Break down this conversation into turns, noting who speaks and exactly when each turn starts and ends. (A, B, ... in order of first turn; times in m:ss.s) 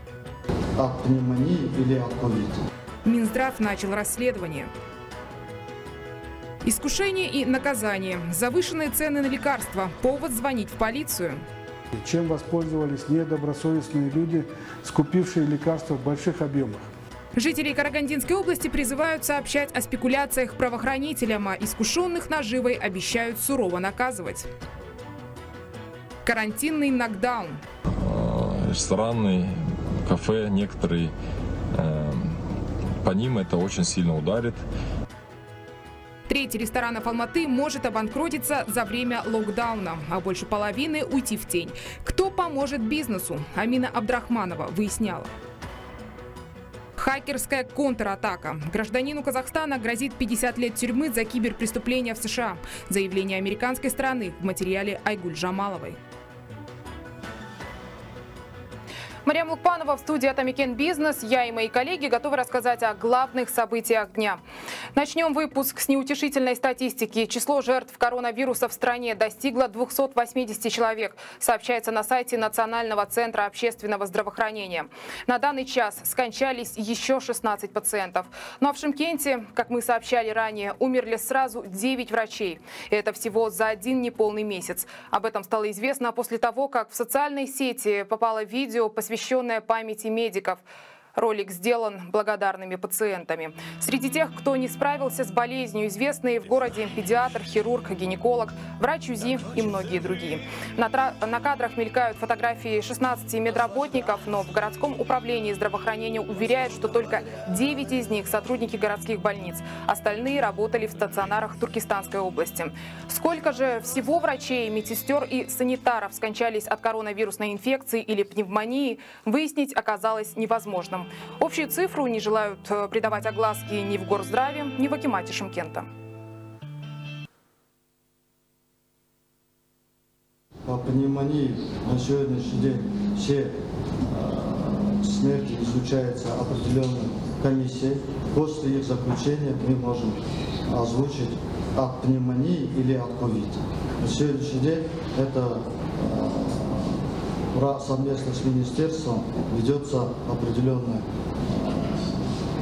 0:00.8-0:02.6 A
0:03.0-0:04.7 B
0:06.6-0:11.4 B
0:12.0-0:16.9 C
0:17.4-0:24.5 B
0:26.2-0:27.6 B
0:27.9-0:31.1 D
0:31.7-0:32.5 D
0:33.0-0:34.6 D
0:36.3-0:45.3 B
0:47.0-0:56.0 B
0:59.2-1:04.4 B
1:04.9-1:30.6 B
1:31.1-2:05.9 B
2:10.6-2:32.3 A